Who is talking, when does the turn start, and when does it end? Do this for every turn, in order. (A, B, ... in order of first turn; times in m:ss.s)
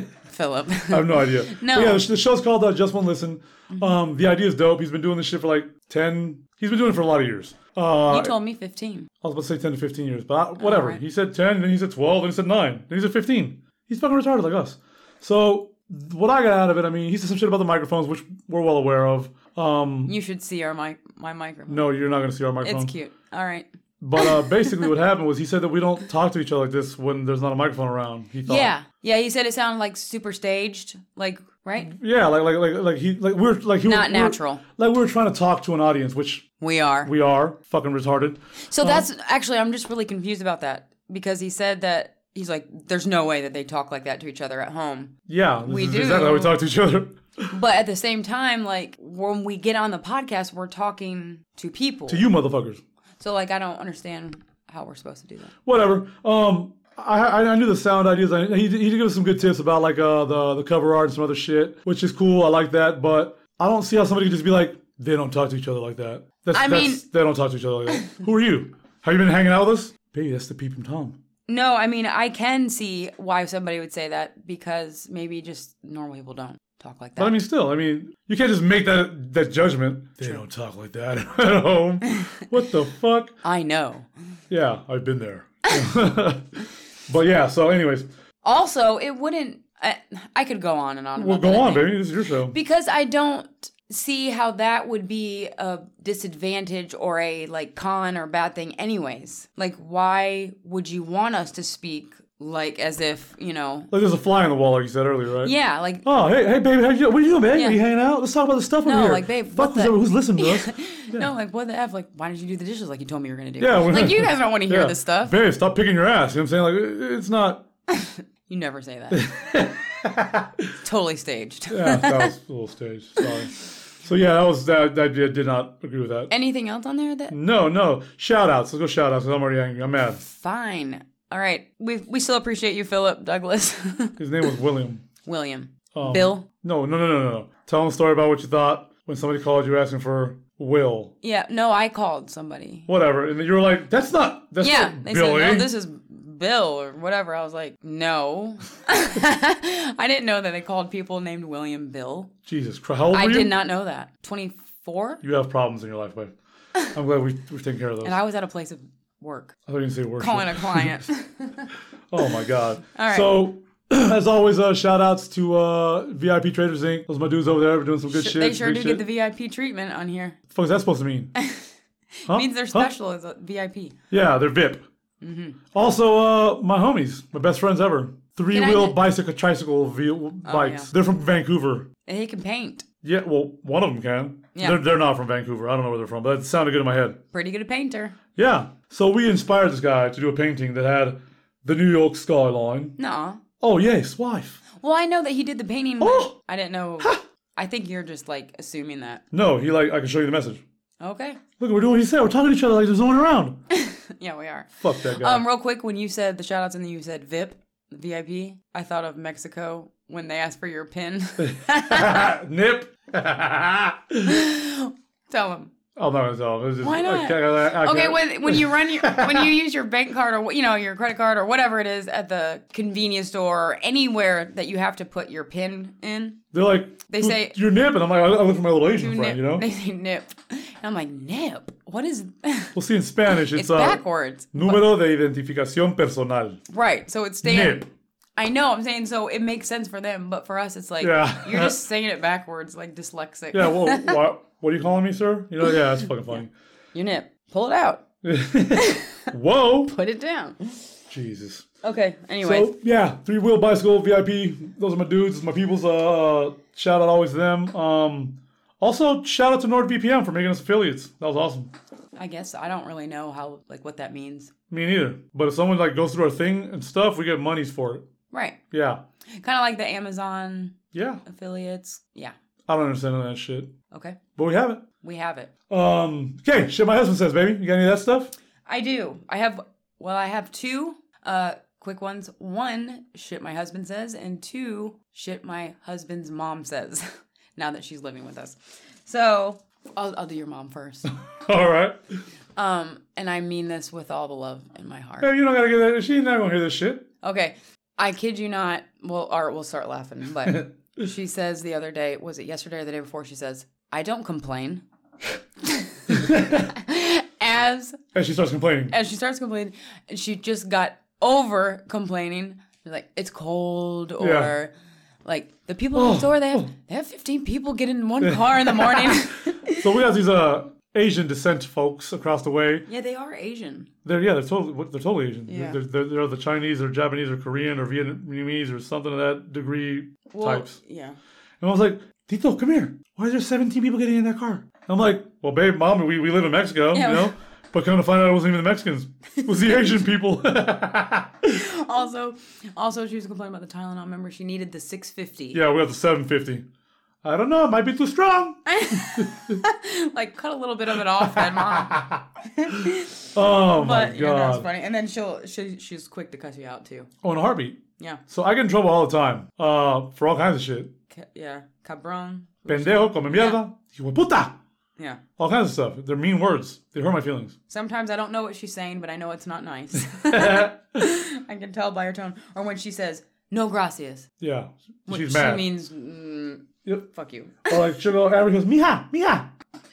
0:00.2-0:02.1 A
0:00.9-0:08.3 B
0:03.7-0:04.0 A
0:08.1-0:09.1 A
0:09.2-0:20.2 B
0:10.6-0:11.0 A
0:20.0-0:21.9 A
0:21.7-0:22.9 B
0:22.6-0:24.9 A
0:24.0-0:28.7 B
0:28.4-0:31.9 A
0:31.8-0:36.5 B
0:33.8-0:34.6 A
0:36.6-0:37.1 A
0:37.0-0:39.1 B
0:38.7-0:46.6 A
0:45.3-0:47.5 B
0:47.5-0:52.3 A
0:52.1-0:52.8 B
0:53.2-0:55.5 A
0:55.6-1:11.2 B
1:06.5-1:07.0 A
1:11.5-1:17.4 A
1:17.2-1:23.4 B
1:23.4-1:24.1 A
1:24.5-1:26.4 B
1:25.7-1:25.9 A
1:27.1-1:28.1 B
1:28.4-1:43.9 A
1:31.2-1:32.6 B
1:43.9-1:51.3 B
1:45.4-1:46.0 A
1:47.5-1:47.8 A
1:48.8-1:55.4 A
1:53.6-1:57.7 B
1:57.9-1:59.3 A
1:59.1-2:00.6 B
2:00.8-2:02.3 A
2:01.7-2:06.3 B
2:06.3-2:07.4 A
2:07.3-2:10.2 B
2:10.2-2:14.5 A
2:14.2-2:15.0 B
2:15.2-2:16.5 A
2:15.9-2:21.1 B
2:21.2-2:22.9 A
2:22.9-2:25.7 B
2:24.6-2:32.3 A
2:32.4-2:33.6 B
2:33.1-2:35.2 A
2:35.2-2:36.3 B
2:36.9-2:38.2 B
2:38.0-2:39.5 A
2:39.6-2:41.0 B
2:40.2-2:41.7 A
2:42.1-2:49.0 B
2:42.9-2:43.5 A
2:48.1-2:50.4 A
2:50.5-2:51.3 B
2:51.4-2:51.7 A
2:52.2-2:54.0 A
2:52.3-2:52.9 B
2:54.1-2:54.9 B
2:55.2-2:55.6 A
2:55.7-3:01.9 B
2:58.5-2:59.0 A
3:00.4-3:00.9 A
3:02.0-3:02.8 A
3:03.0-3:07.2 B
3:04.5-3:04.8 A
3:07.3-3:08.2 A
3:08.4-3:13.0 B
3:13.0-3:13.4 A
3:13.6-3:14.6 B
3:14.8-3:19.2 A
3:16.0-3:16.4 B
3:19.3-3:20.6 B
3:21.0-3:21.4 A
3:21.6-3:23.6 B
3:23.7-3:32.3 A
3:24.8-3:25.4 B
3:31.4-3:34.3 B
3:34.2-3:35.7 A
3:36.0-3:39.6 B
3:36.8-3:46.4 A
3:46.5-3:49.6 B
3:47.1-3:47.6 A
3:49.0-3:52.8 A
3:52.7-3:56.6 B
3:53.4-3:54.9 A
3:56.7-4:04.2 A
3:57.4-3:57.9 B
4:01.0-4:01.8 B
4:03.5-4:06.5 B
4:06.2-4:08.0 A
4:08.2-4:09.9 B
4:08.7-4:09.2 A
4:09.8-4:10.8 A
4:11.1-4:11.6 B
4:11.8-4:12.7 A
4:12.4-4:21.7 B
4:22.2-4:24.5 A
4:24.7-4:28.0 B
4:28.3-4:28.6 A
4:28.7-4:29.0 B
4:29.3-4:32.3 A
4:30.9-4:31.2 B
4:32.7-4:33.7 B
4:33.9-4:34.2 A
4:34.4-4:34.9 B
4:35.0-4:35.5 A
4:35.7-4:38.3 B
4:38.6-4:51.1 A
4:51.4-4:52.0 B
4:52.6-4:55.3 A
4:55.2-4:57.1 B
4:57.2-5:04.8 A
5:00.5-5:00.8 B
5:05.6-5:08.0 A
5:06.1-5:06.7 B
5:08.1-5:08.9 B
5:08.9-5:14.7 A
5:14.2-5:14.5 B
5:15.2-5:19.9 A
5:15.9-5:16.7 B
5:18.2-5:22.9 B
5:22.9-5:23.9 A
5:24.0-5:30.8 B
5:25.5-5:25.8 A
5:30.3-5:31.2 A
5:31.6-5:41.5 B
5:36.9-5:37.3 A
5:39.4-5:39.9 A
5:41.5-5:45.6 A
5:45.5-5:46.6 B
5:47.2-5:49.6 B
5:48.7-5:57.1 A
5:51.2-5:52.2 B
5:53.3-5:54.7 B
5:57.2-6:00.9 B
6:01.1-6:03.6 A
6:02.7-6:04.6 B
6:05.4-6:07.5 B
6:07.7-6:14.3 A
6:10.1-6:10.8 B
6:14.4-6:15.7 B
6:15.1-6:17.9 A
6:17.6-6:19.5 B